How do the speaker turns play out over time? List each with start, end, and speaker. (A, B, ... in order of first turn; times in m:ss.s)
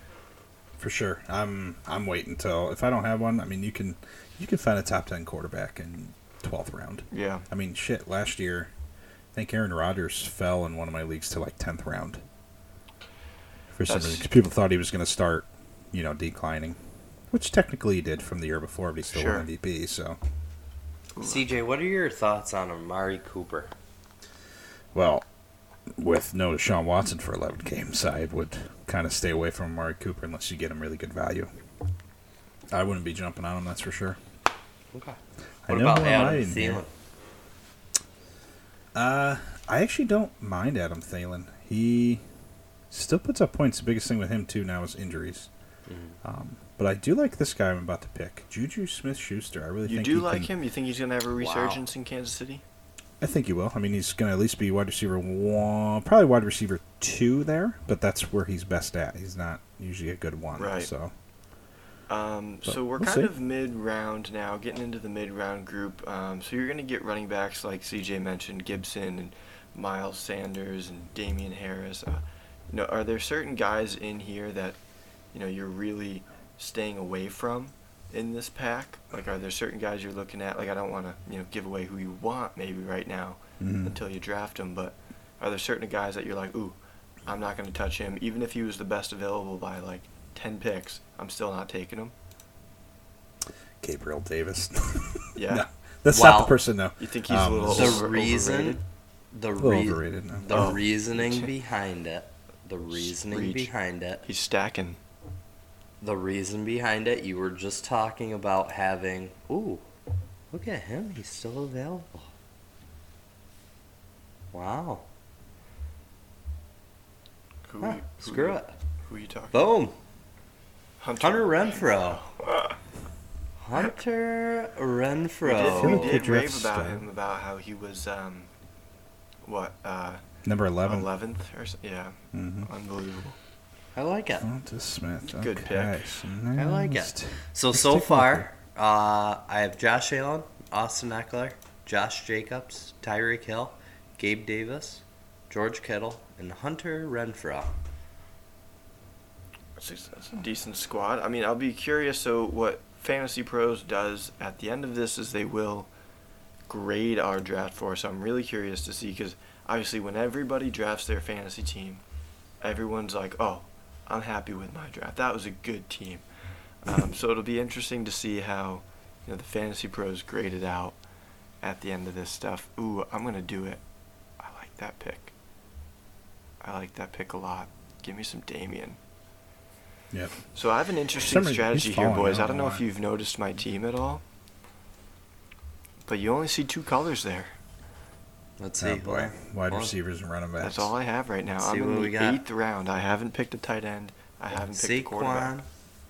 0:00.8-0:08.7 A
0:07.1-0:07.5 B
0:09.3-0:12.2 A
0:13.7-0:16.8 A
0:13.9-0:14.3 B
0:17.3-0:20.2 A
0:19.1-0:19.5 B
0:21.2-0:21.4 B
0:21.2-0:23.7 C
0:24.9-0:25.2 A
0:25.9-0:31.5 A
0:32.7-0:34.2 A
0:34.9-0:36.9 C
0:35.7-0:36.8 A
0:38.9-0:42.2 A
0:42.9-0:45.5 A
0:45.9-0:46.2 C
0:46.2-0:50.5 A
0:49.9-0:52.6 B
0:51.4-0:51.8 C
0:53.2-1:01.1 A
1:00.6-1:00.9 B
1:02.1-1:14.8 B
1:02.7-1:03.3 A
1:15.3-1:32.1 B
1:23.6-1:24.0 A
1:33.8-1:38.0 A
1:35.4-1:35.7 B
1:36.1-1:36.6 C
1:37.0-1:38.8 B
1:37.7-1:44.2 C
1:39.6-1:40.8 A
1:40.5-1:41.5 B
1:42.9-1:43.7 B
1:44.2-1:45.0 B
1:46.0-1:49.8 C
1:50.5-1:52.3 C
1:54.5-1:55.0 C
1:57.7-1:59.7 B
1:57.8-1:58.8 C
1:59.5-2:00.0 C
2:01.0-2:02.8 B
2:01.2-2:02.2 C
2:03.6-2:06.2 C
2:05.4-2:08.5 B
2:05.7-2:07.1 A
2:09.4-2:10.2 B
2:10.4-2:11.1 A
2:10.8-2:13.4 B
2:12.3-2:12.7 A
2:14.0-2:14.5 C
2:14.4-2:18.5 A
2:15.3-2:16.0 B
2:16.6-2:27.7 C
2:29.8-2:35.9 B
2:36.7-2:42.0 B
2:42.6-2:46.2 B
2:46.8-2:51.0 B
2:51.6-2:53.8 B
2:54.4-2:55.3 B
2:56.6-2:59.0 B
3:00.1-3:00.4 A
3:00.5-3:04.2 B
3:01.2-3:02.8 A
3:06.1-3:07.5 B
3:08.6-3:09.9 C
3:08.8-3:10.9 A
3:10.6-3:15.5 B
3:11.6-3:12.4 C
3:14.7-3:15.7 C